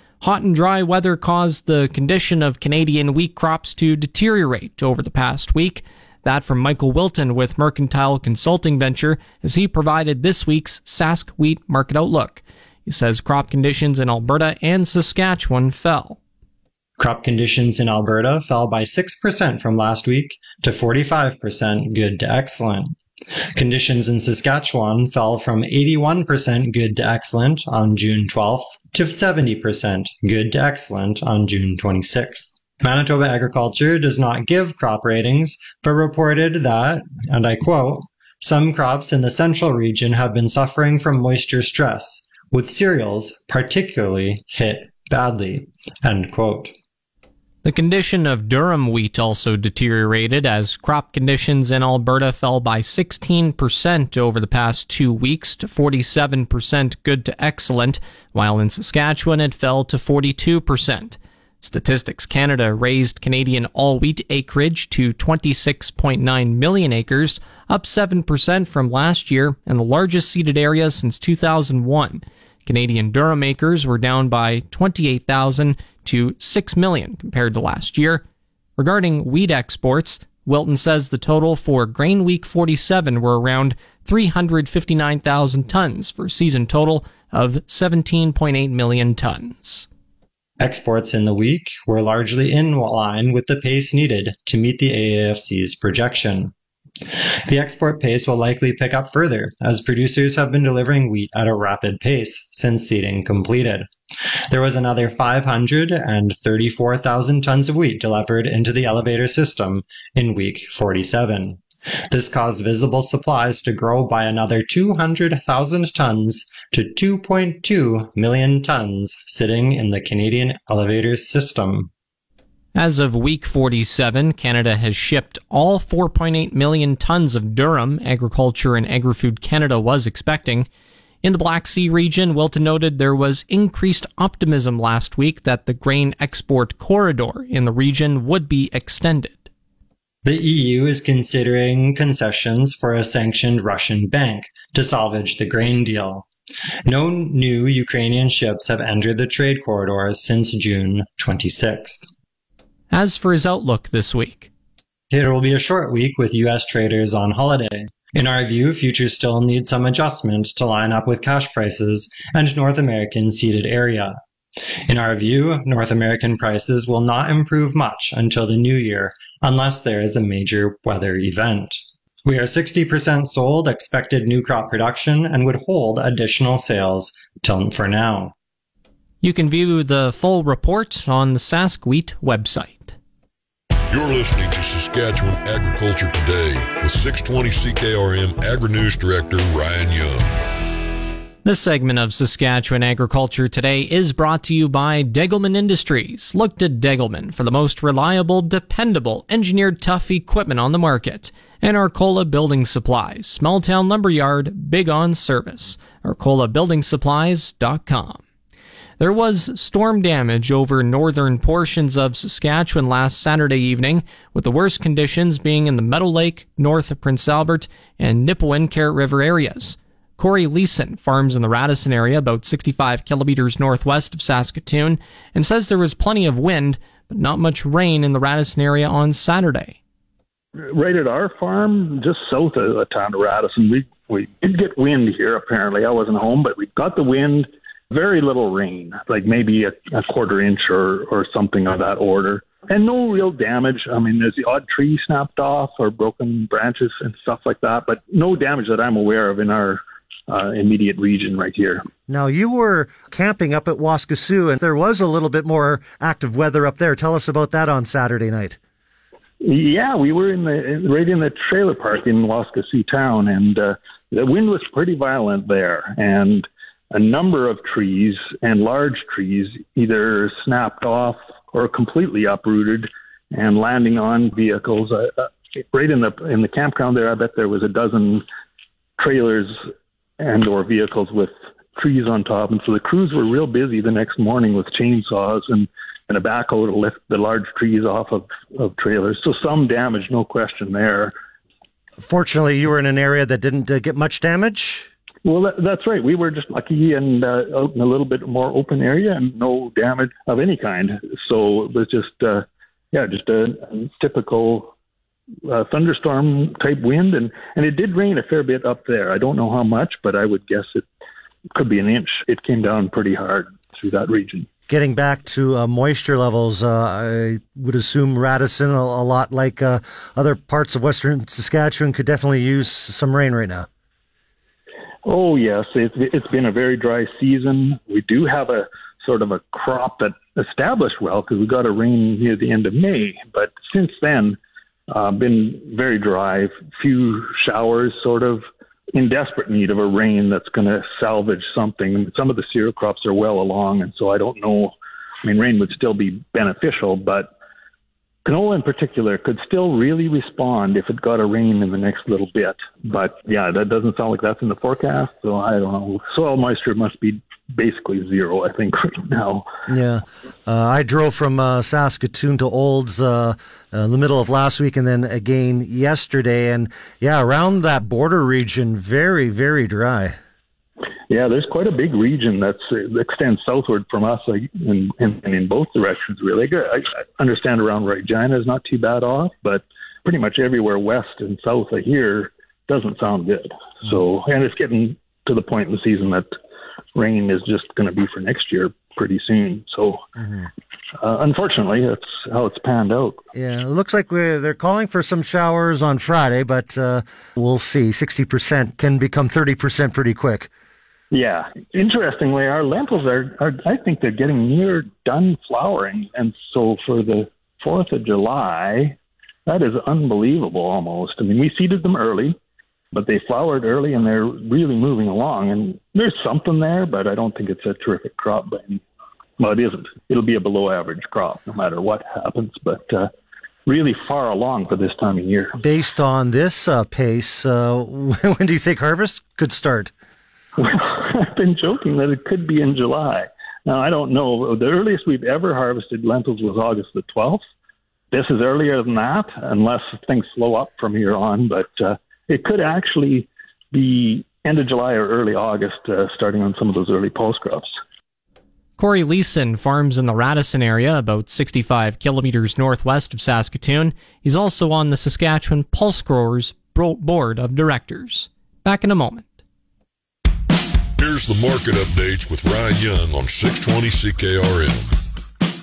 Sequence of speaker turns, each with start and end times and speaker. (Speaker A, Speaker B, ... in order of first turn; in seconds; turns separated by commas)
Speaker A: 0.2-16.2, Speaker B: 17.0-22.9, Speaker B: 23.5-46.7, Speaker A: 47.6-78.2, Speaker A: 78.8-89.8, Speaker B: 90.6-96.5, Speaker B: 97.5-103.9, Speaker B: 104.5-121.9, Speaker A: 122.7-130.7, Speaker A: 131.2-139.5, Speaker B: 140.2-146.2, Speaker B: 146.9-152.0, Speaker A: 152.9-154.5, Speaker B: 155.1-164.2, Speaker B: 164.9-178.3, Speaker A: 179.2-182.9, Speaker C: 183.9-190.3, Speaker A: 191.4-208.2, Speaker A: 209.0-229.8, Speaker D: 230.6-251.8, Speaker E: 252.1-258.6, Speaker D: 259.4-278.2, Speaker D: 279.0-279.6, Speaker D: 280.2-291.1, Speaker E: 292.0-294.9, Speaker D: 295.2-304.7, Speaker D: 305.4-310.9, Speaker D: 311.5-314.5, Speaker E: 314.7-323.7, Speaker D: 325.1-334.4, Speaker D: 334.9-347.3, Speaker D: 348.2-359.4, Speaker E: 359.7-370.2, Speaker D: 371.1-386.3, Speaker D: 386.9-390.0, Speaker D: 391.0-393.2, Speaker E: 393.3-400.5, Speaker D: 401.1-412.4, Speaker D: 412.9-418.8, Speaker D: 419.4-423.1, Speaker D: 423.6-425.6, Speaker E: 425.6-429.9, Speaker D: 430.6-437.4, Speaker D: 438.1-447.7, Speaker A: 448.8-459.3, Speaker C: 461.0-464.9